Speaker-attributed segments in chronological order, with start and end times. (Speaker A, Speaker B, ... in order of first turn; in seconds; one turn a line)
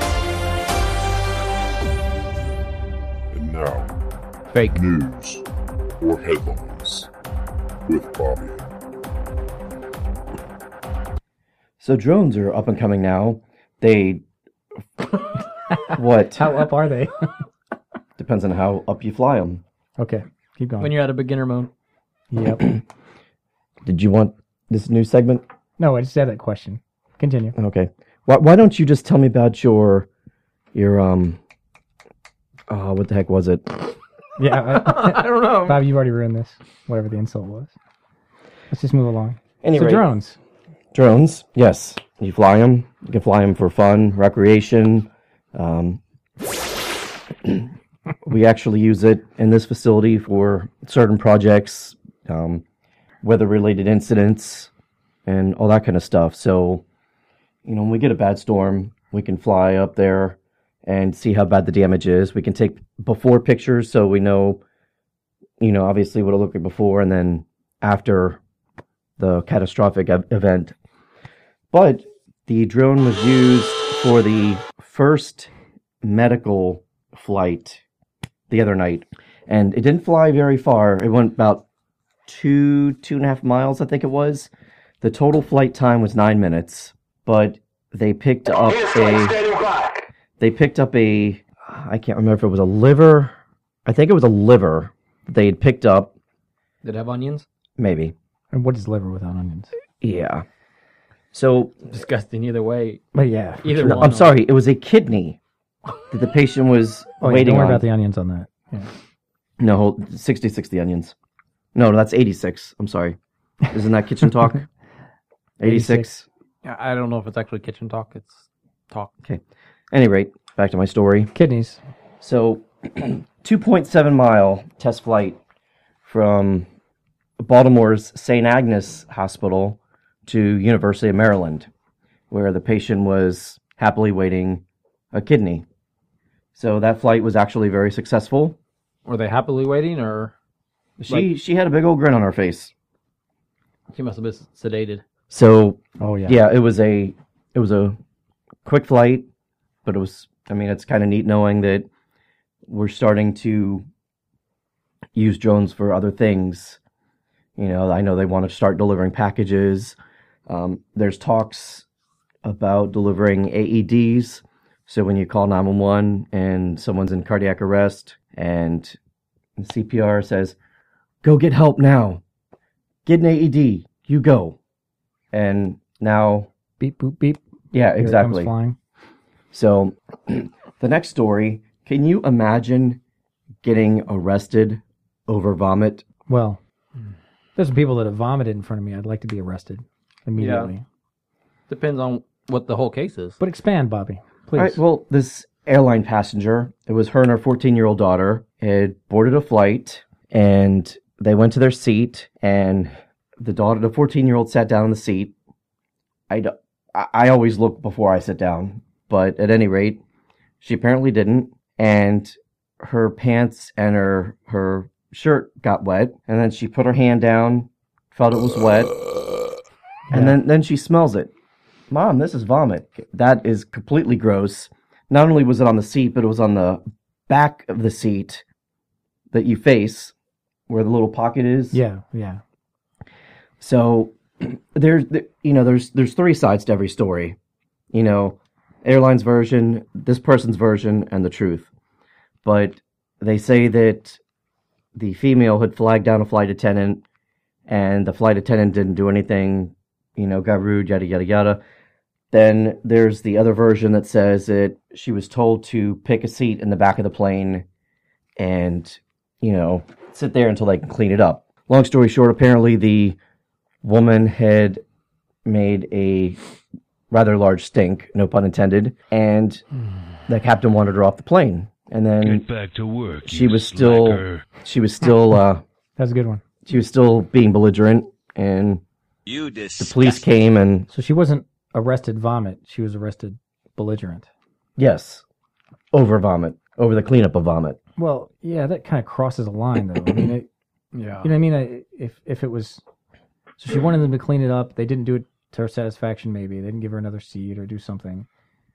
Speaker A: 3.3-4.0
Speaker B: 4.5-4.8
Speaker A: 4.7-5.4
Speaker A: 6.0-7.1
Speaker A: 7.9-8.7
Speaker C: 11.8-14.2
Speaker D: 15.7-17.3
Speaker C: 15.9-16.5
Speaker C: 18.2-19.6
Speaker D: 20.0-20.9
Speaker B: 20.8-21.7
Speaker D: 22.3-22.8
Speaker C: 23.9-25.4
Speaker D: 25.8-27.6
Speaker C: 27.6-30.1
Speaker C: 30.7-31.4
Speaker C: 32.7-34.0
Speaker D: 34.4-37.7
Speaker B: 34.7-35.8
Speaker D: 38.7-40.4
Speaker C: 39.6-40.1
Speaker C: 40.9-46.0
Speaker C: 47.4-47.7
Speaker C: 48.2-52.6
Speaker C: 53.2-54.7
Speaker C: 55.2-56.8
Speaker C: 57.6-64.6
Speaker C: 65.6-68.4
Speaker C: 69.2-70.8
Speaker C: 71.7-75.5
Speaker C: 76.0-77.8
Speaker C: 78.5-81.6
Speaker C: 82.3-84.5
Speaker C: 85.0-89.5
Speaker C: 90.4-96.1
Speaker B: 96.8-97.5
Speaker C: 97.8-98.1
Speaker D: 98.5-99.7
Speaker C: 100.0-100.5
Speaker C: 101.3-101.8
Speaker B: 101.9-103.0
Speaker D: 103.1-104.0
Speaker B: 103.6-104.3
Speaker C: 103.8-105.4
Speaker C: 106.1-107.8
Speaker D: 107.2-108.9
Speaker C: 109.6-111.1
Speaker C: 111.8-113.2
Speaker C: 113.7-114.7
Speaker C: 115.6-116.2
Speaker D: 115.6-116.1
Speaker B: 116.6-119.1
Speaker C: 119.2-121.3
Speaker D: 121.3-121.8
Speaker C: 122.2-125.4
Speaker C: 126.0-126.7
Speaker C: 127.4-131.7
Speaker C: 132.3-135.6
Speaker C: 136.6-138.6
Speaker B: 139.1-140.3
Speaker C: 141.0-142.7
Speaker B: 143.9-145.0
Speaker C: 145.3-148.0
Speaker D: 146.0-146.4
Speaker C: 148.6-149.3
Speaker C: 149.8-151.9
Speaker C: 152.7-153.9
Speaker C: 155.1-156.8
Speaker C: 157.6-160.0
Speaker C: 160.5-161.8
Speaker C: 162.4-169.0
Speaker C: 169.6-170.6
Speaker C: 171.2-172.2
Speaker C: 173.1-174.6
Speaker C: 175.3-176.5
Speaker D: 176.8-177.4
Speaker C: 177.7-178.5
Speaker D: 177.9-178.8
Speaker C: 179.5-183.0
Speaker C: 183.6-186.1
Speaker D: 186.3-186.6
Speaker D: 187.6-190.8
Speaker B: 190.4-190.7
Speaker B: 191.7-193.4
Speaker D: 193.4-194.8
Speaker C: 194.6-205.3
Speaker C: 206.3-210.0
Speaker C: 210.6-218.9
Speaker D: 220.1-220.4
Speaker C: 220.1-221.3
Speaker C: 221.9-228.4
Speaker C: 229.3-230.1
Speaker C: 230.7-231.8
Speaker D: 231.7-232.4
Speaker C: 233.6-237.4
Speaker C: 237.9-241.7
Speaker C: 242.4-244.2
Speaker C: 244.9-247.0
Speaker C: 247.7-251.6
Speaker C: 252.3-257.6
Speaker C: 258.4-263.2
Speaker C: 263.8-264.8
Speaker C: 265.4-266.4
Speaker C: 267.1-269.6
Speaker C: 270.3-272.5
Speaker E: 272.2-274.5
Speaker C: 273.2-275.6
Speaker D: 276.0-276.4
Speaker C: 276.6-278.8
Speaker C: 279.8-280.9
Speaker D: 280.9-284.3
Speaker C: 284.8-285.2
Speaker C: 285.9-287.8
Speaker D: 288.0-290.5
Speaker B: 290.9-291.3
Speaker D: 291.2-292.8
Speaker D: 293.6-298.3